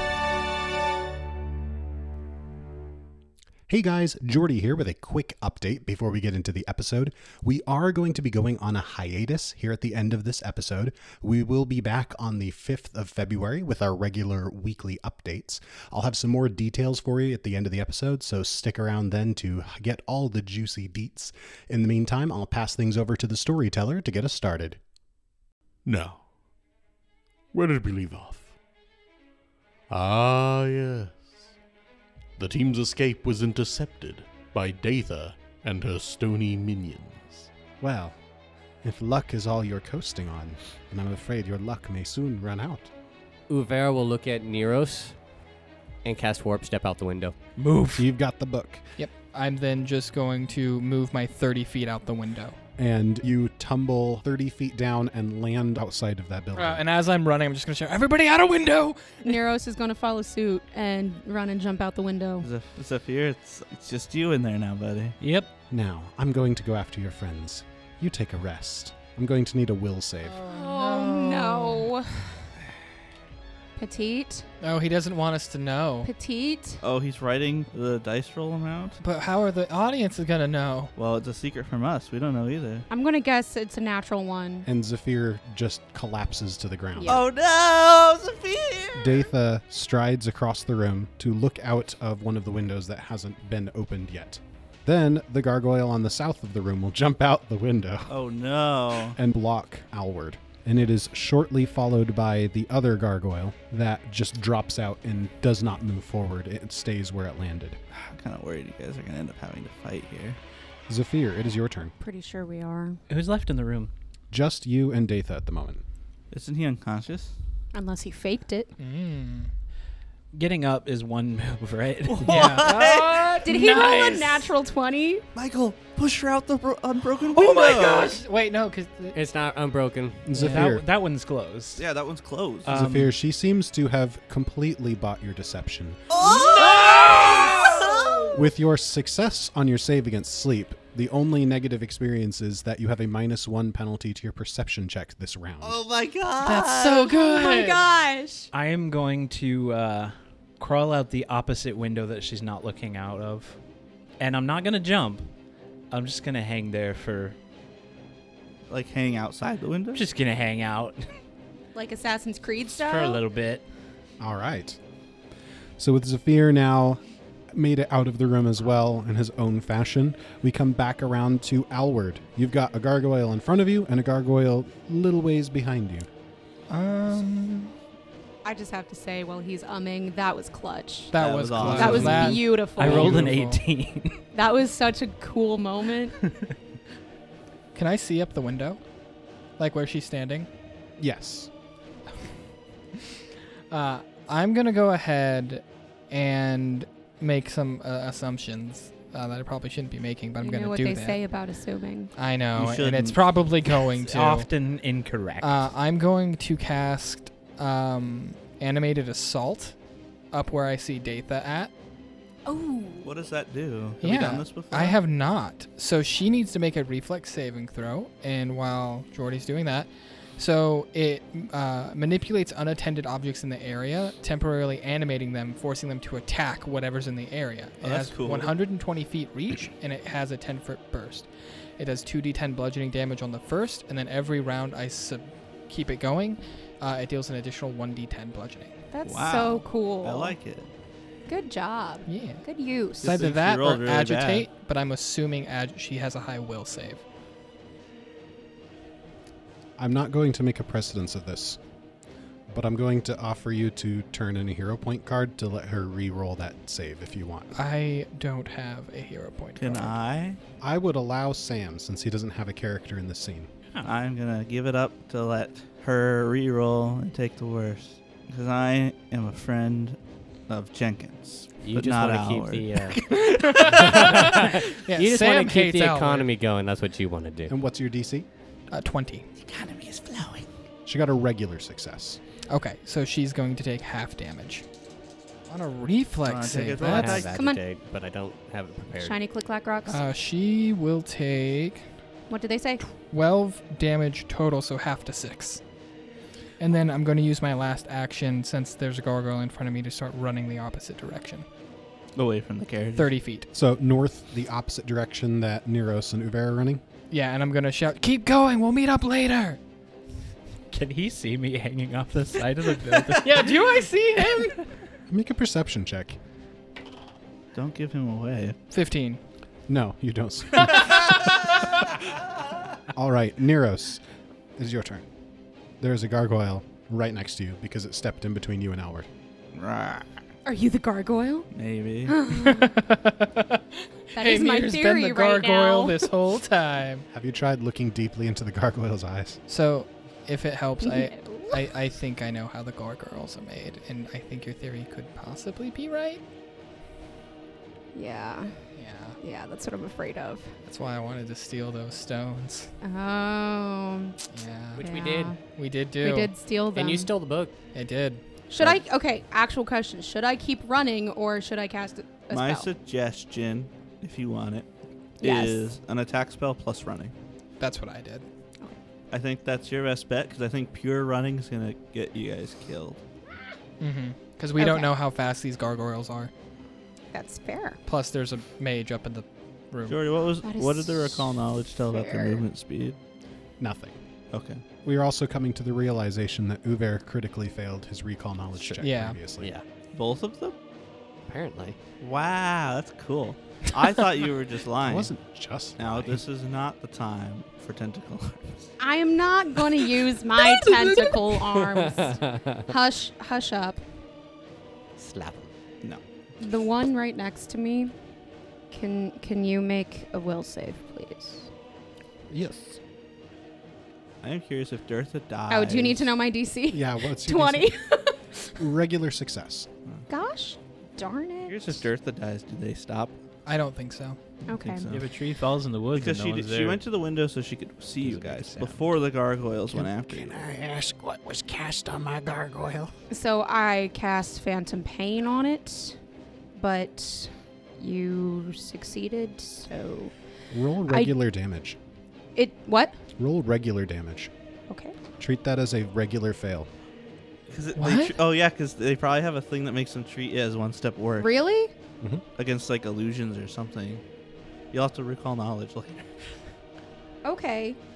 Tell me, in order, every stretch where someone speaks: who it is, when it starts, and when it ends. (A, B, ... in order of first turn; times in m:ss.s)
0:03.7-0:24.8 A
0:25.8-0:26.2 B
0:27.5-0:28.5 B
0:29.9-0:31.5 B
0:32.4-0:37.5 B
0:37.8-0:38.2 A
0:38.8-0:42.9 A
0:43.5-0:45.2 C
0:46.0-0:47.4 C
0:47.6-0:48.0 D
0:48.0-0:48.8 A
0:49.0-0:52.6 D
0:52.8-0:56.8 A
0:56.6-0:59.4 D
0:59.2-1:02.5 E
1:02.4-1:05.2 F
1:05.2-1:05.5 G
1:05.7-1:10.4 A
1:10.2-1:11.9 D
1:10.4-1:12.5 E
1:13.8-1:14.5 E
1:14.6-1:16.1 D
1:16.0-1:16.8 E
1:16.8-1:19.0 F
1:19.0-1:20.9 D
1:21.0-1:22.9 F
1:22.9-1:24.7 E
1:24.7-1:27.2 A
1:27.0-1:27.2 E
1:27.1-1:29.3 F
1:29.0-1:38.1 A
1:38.1-1:39.2 F
1:39.1-1:47.8 A
1:47.9-1:50.4 F
1:50.9-1:51.9 A
1:52.0-1:53.0 E
1:53.1-1:53.9 G
1:54.3-1:55.8 A
1:56.3-1:57.4 F
1:57.7-1:58.7 E
1:58.8-1:59.5 D
2:00.3-2:02.7 G
2:02.1-2:03.4 F
2:02.2-2:04.5 D
2:02.7-2:03.4 C
2:03.4-2:05.2 E
2:05.4-2:08.2 F
2:07.3-2:09.2 D
2:09.1-2:10.3 C
2:10.3-2:10.8 A
2:10.4-2:11.8 G
2:10.4-2:10.6 D
2:11.8-2:12.7 F
2:12.6-2:13.1 G
2:12.7-2:16.0 A
2:16.1-2:18.4 F
2:16.2-2:17.8 D
2:16.6-2:18.2 E
2:18.4-2:25.8 A
2:25.6-2:26.9 F
2:26.4-2:27.8 D
2:26.7-2:28.5 E
2:28.5-2:33.6 G
2:34.2-2:35.3 G
2:35.9-2:37.4 G
2:38.7-2:40.0 F
2:39.9-2:41.1 G
2:41.7-2:43.2 E
2:42.7-2:43.6 G
2:44.2-2:44.8 A
2:45.8-2:47.0 A
2:47.5-2:56.1 A
2:56.7-2:57.7 D
2:58.4-3:01.1 E
3:01.1-3:03.6 D
3:01.2-3:02.4 F
3:01.7-3:03.3 E
3:02.0-3:04.2 G
3:02.9-3:03.2 A
3:04.3-3:06.2 E
3:07.8-3:08.8 D
3:09.6-3:10.5 D
3:11.0-3:11.5 A
3:13.7-3:21.2 D
3:20.4-3:22.1 E
3:22.2-3:24.5 D
3:22.6-3:23.2 F
3:24.0-3:25.7 G
3:25.4-3:29.8 D
3:30.3-3:31.7 D
3:32.5-3:33.1 E
3:33.0-3:35.0 F
3:34.0-3:58.7 D
3:47.8-3:48.5 F
3:58.9-4:00.4 E
3:59.0-4:00.7 F
4:01.3-4:03.1 E
4:02.1-4:02.4 D
4:03.0-4:07.0 D
4:03.0-4:04.5 F
4:09.8-4:11.6 A
4:12.5-4:17.5 A
4:17.5-4:20.0 D
4:19.6-4:20.4 F
4:20.6-4:23.5 A
4:23.8-4:30.0 F
4:30.5-4:33.2 F
4:31.6-4:33.0 C
4:33.1-4:36.3 D
4:33.7-4:37.5 C
4:37.5-4:38.3 A
4:38.7-4:39.3 D
4:39.4-4:40.5 F
4:40.8-4:42.2 A
4:42.5-4:44.7 D
4:45.5-4:47.2 D
4:46.2-4:47.4 F
4:46.8-4:49.2 C
4:47.3-4:47.6 E
4:49.0-4:50.0 E
4:49.9-4:51.9 D
4:52.3-4:52.8 E
4:53.1-4:55.6 D
4:56.6-5:01.5 D
5:02.2-5:03.1 F
5:03.0-5:03.5 D
5:03.5-5:06.8 A
5:07.1-5:09.6 D
5:10.7-5:13.6 G
5:12.9-5:14.6 D
5:15.1-5:16.2 A
5:17.5-5:18.6 F
5:18.7-5:19.2 D
5:19.7-5:21.5 A
5:22.9-5:24.0 A
5:24.6-5:25.0 A
5:25.8-5:29.1 A
5:29.6-5:30.1 F
5:30.4-5:31.5 E
5:31.5-5:32.2 F
5:32.1-5:32.8 E
5:32.4-5:37.1 D
5:34.2-5:36.0 E
5:37.1-5:39.4 A
5:39.5-5:46.2 D
5:40.8-5:41.6 E
5:47.9-5:48.6 E
5:48.8-5:49.2 D
5:49.2-5:50.6 E
5:50.6-5:52.7 D
5:52.8-5:54.2 E
5:54.3-5:54.8 D
5:54.8-5:55.4 C
5:54.8-5:55.4 E
5:55.4-5:56.3 D
5:56.0-5:57.1 E
5:56.7-5:57.5 C
5:57.7-5:58.2 D
5:58.5-6:02.7 E
6:02.3-6:04.7 F
6:05.2-6:05.7 E
6:05.2-6:07.1 F
6:07.6-6:08.3 D
6:09.1-6:13.0 F
6:13.8-6:16.3 D
6:14.6-6:14.9 E
6:17.1-6:17.8 E
6:17.9-6:20.0 D
6:19.9-6:23.0 F
6:20.4-6:22.4 E
6:23.6-6:24.0 A
6:24.3-6:24.6 F
6:24.8-6:29.5 A
6:28.8-6:29.2 D
6:29.4-6:29.6 C
6:29.9-6:30.6 F
6:31.3-6:31.8 C
6:32.0-6:35.1 F
6:34.8-6:36.2 A
6:35.8-6:38.7 F
6:38.8-6:43.8 E
6:40.7-6:41.0 C
6:41.5-6:42.7 C
6:45.0-6:45.5 C
6:46.4-6:47.9 E
6:48.7-6:51.5 E
6:52.3-6:52.8 A
6:54.2-6:56.1 F
6:55.5-6:58.6 E
6:56.7-6:57.7 A
6:58.6-6:59.7 A
7:00.1-7:01.8 E
7:01.5-7:03.2 F
7:03.5-7:04.2 D
7:04.5-7:05.1 F
7:04.5-7:04.9 E
7:04.9-7:06.8 G
7:05.9-7:10.4 F
7:08.0-7:09.0 G
7:09.8-7:12.9 A
7:13.1-7:16.0 E
7:16.6-7:20.1 E
7:20.5-7:21.8 A
7:20.9-7:21.1 E
7:22.4-7:23.0 E
7:23.2-7:24.3 A
7:24.7-7:25.0 E
7:25.2-7:26.7 A
7:27.5-7:31.3 F
7:27.8-7:28.2 D
7:31.2-7:31.7 E
7:32.4-7:34.0 F
7:34.7-7:36.1 F
7:37.2-7:37.8 E